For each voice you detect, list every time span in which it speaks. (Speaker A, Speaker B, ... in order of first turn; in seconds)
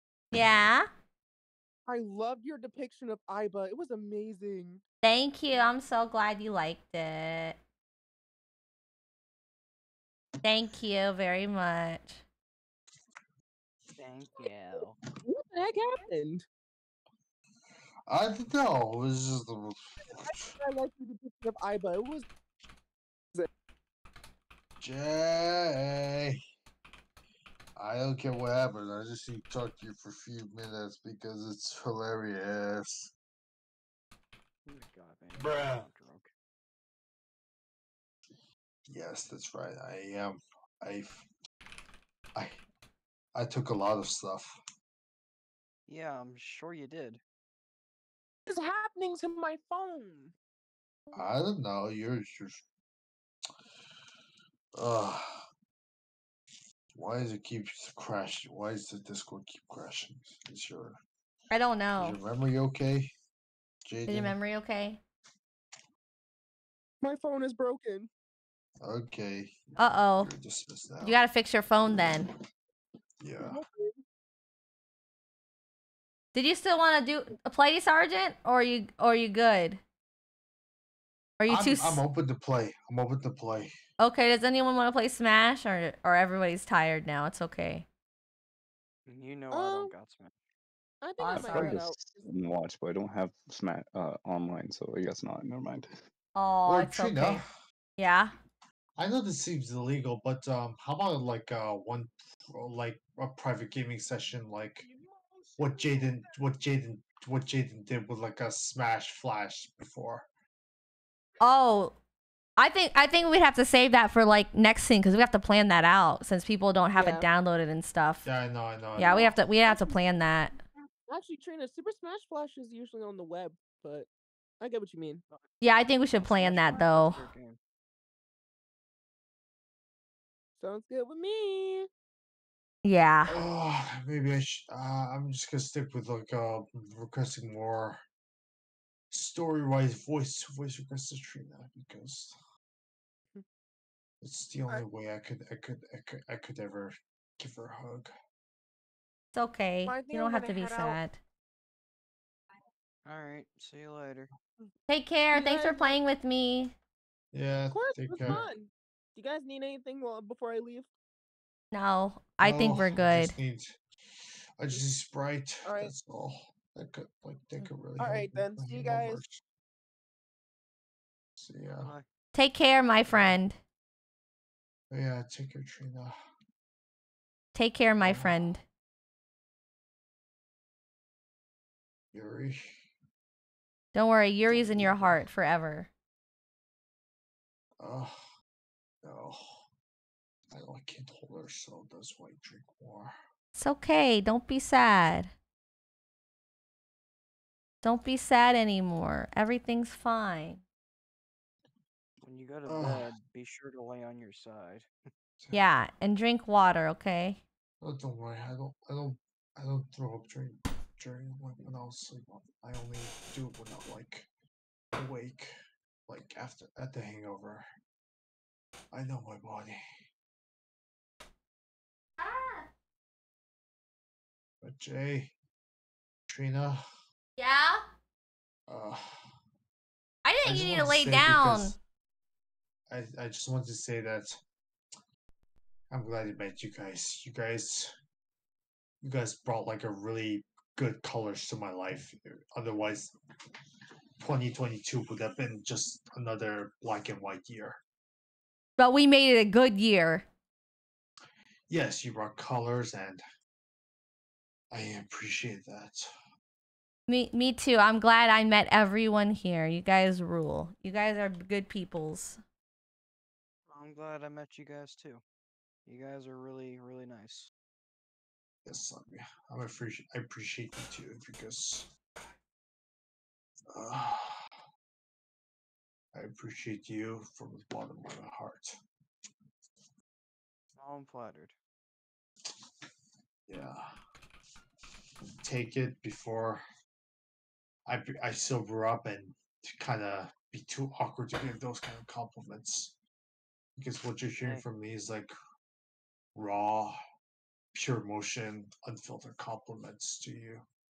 Speaker A: 0.3-0.9, 5.0-7.6, 10.4-12.2, 61.5-62.2, 64.1-65.0, 69.8-70.3, 71.0-72.3, 76.3-79.8, 81.4-82.0, 84.0-87.8, 91.2-91.8, 96.3-97.4, 98.0-98.3, 111.4-111.9, 112.6-118.3, 119.0-120.5, 125.6-127.2, 132.8-133.4, 149.3-151.2, 154.9-156.7, 161.7-163.3, 172.3-173.6, 177.5-178.6, 183.9-185.9, 193.5-195.3, 197.8-200.6, 205.5-207.4, 222.2-222.7, 227.4-227.8, 230.2-231.7, 248.8-250.2, 257.1-262.4
Speaker B: 1.9-4.8, 15.2-16.4, 20.1-22.2, 48.5-50.3, 67.0-68.1, 73.5-74.0, 89.5-89.9, 91.0-92.2, 105.0-106.3, 116.9-117.2, 121.1-124.1, 124.6-125.2, 130.6-131.9, 149.8-151.0, 155.3-156.0, 157.7-160.9, 165.6-165.9, 168.0-169.2
Speaker C: 14.0-15.0, 34.6-36.3, 45.9-47.2, 89.1-90.3, 126.2-127.6, 153.0-154.3, 202.2-204.9, 263.7-265.2, 265.9-267.5, 280.8-281.5, 294.4-294.6
Speaker D: 18.1-20.3, 24.8-26.4, 27.8-33.1, 35.4-35.8, 38.9-41.3, 42.3-42.6, 43.3-44.6, 51.1-52.6, 54.8-55.5, 56.9-61.0, 62.0-63.1, 63.8-64.4, 68.8-69.6, 70.2-71.2, 73.2-73.6, 81.5-83.7, 96.7-97.5, 99.0-104.9, 105.6-110.3, 118.2-119.4, 133.3-138.0, 139.1-142.3, 144.2-148.1, 157.3-158.4, 162.4-163.8, 164.6-169.4, 171.3-171.9, 173.1-173.3, 174.9-176.2, 178.0-178.6, 182.1-182.7, 184.5-185.2, 187.8-188.2, 189.0-189.6, 190.5-193.2, 202.7-203.1, 205.4-205.7, 207.8-214.3, 214.9-215.5, 216.1-217.7, 218.9-219.8, 224.6-225.3, 226.3-226.8, 228.7-229.2, 230.4-231.8, 232.9-234.4, 235.9-237.9, 239.0-243.1, 244.2-247.8, 251.7-253.2, 254.7-256.1, 268.6-271.9, 273.7-274.5, 276.1-278.8, 283.5-283.9, 285.4-286.6, 287.9-292.9, 293.8-295.3, 296.3-297.0, 297.7-300.6
Speaker E: 91.3-95.9